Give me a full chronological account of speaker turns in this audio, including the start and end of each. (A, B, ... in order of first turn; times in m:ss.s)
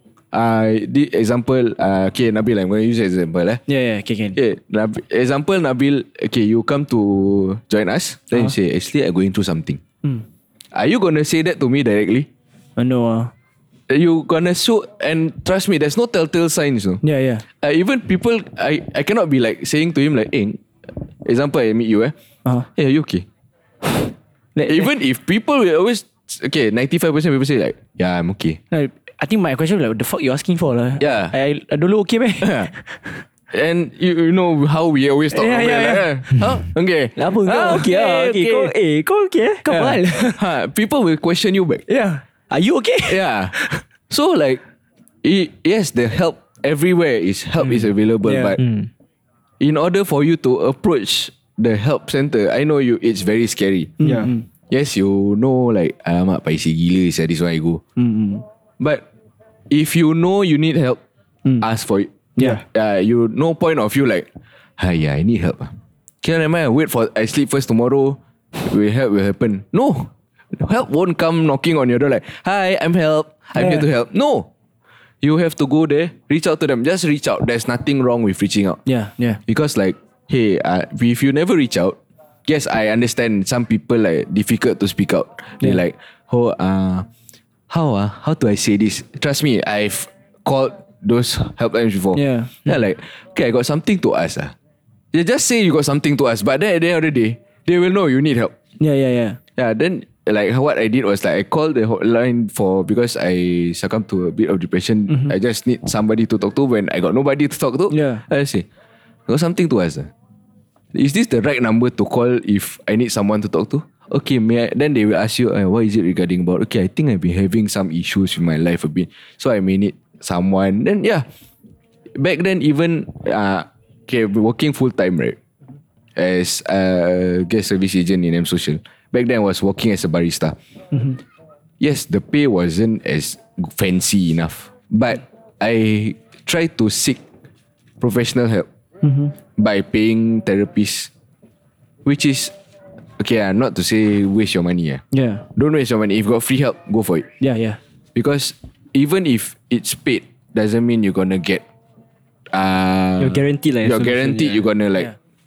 0:00.3-0:03.6 A
0:03.7-0:04.4 B
0:04.4-0:09.8 A
0:10.7-0:12.3 A
0:12.8-0:13.3 B
0:13.9-0:17.0 A
0:17.0-0:17.4 B
0:17.5-0:20.6 A
0:21.2-0:22.2 A
0:22.8-0:23.3 A
0:24.6-0:24.9 B
0:24.7-0:28.6 A
0:28.7-0:33.2 B
0:31.0-0:31.3 A
0:32.4-0:32.7 A
0:33.5-0:38.1 A
0:35.3-0:36.5 B
0:37.2-0:38.7 B
0:37.5-0:39.8 C
0:39.6-0:40.4 B
0:39.7-0:41.8 A
0:41.9-0:43.8 B
0:43.1-0:44.6 A
0:45.2-0:48.6 A
0:48.2-0:48.6 B
0:48.6-0:48.9 C
0:49.6-0:53.9 A
0:54.0-0:54.4 B
0:54.0-0:54.3 C
0:54.7-0:57.8 A
0:58.0-0:58.4 B
0:58.8-0:59.0 A
0:59.7-1:01.0 A
1:01.6-1:14.5 A
1:02.4-1:02.6 B
1:13.6-1:13.8 B
1:15.2-1:18.8 A
1:18.9-1:19.4 B
1:19.5-1:27.1 A
1:27.7-1:34.5 A
1:32.1-1:32.5 B
1:35.1-1:38.5 A
1:38.8-1:39.4 B
1:39.6-1:48.6 A
1:47.9-1:48.2 B
1:49.3-1:50.1 A
1:50.9-2:01.3 A
2:02.2-2:05.4 A
2:06.2-2:10.6 A
2:10.9-2:11.2 B
2:11.8-2:17.2 A
2:18.0-2:18.7 A
2:19.0-2:19.3 B
2:19.6-2:21.1 A
2:22.0-2:22.5 A
2:23.2-2:25.0 A
2:25.1-2:25.5 B
2:25.6-2:27.3 A
2:27.4-2:27.8 B
2:28.2-2:31.6 A
2:32.5-2:35.1 A
2:33.2-2:34.7 C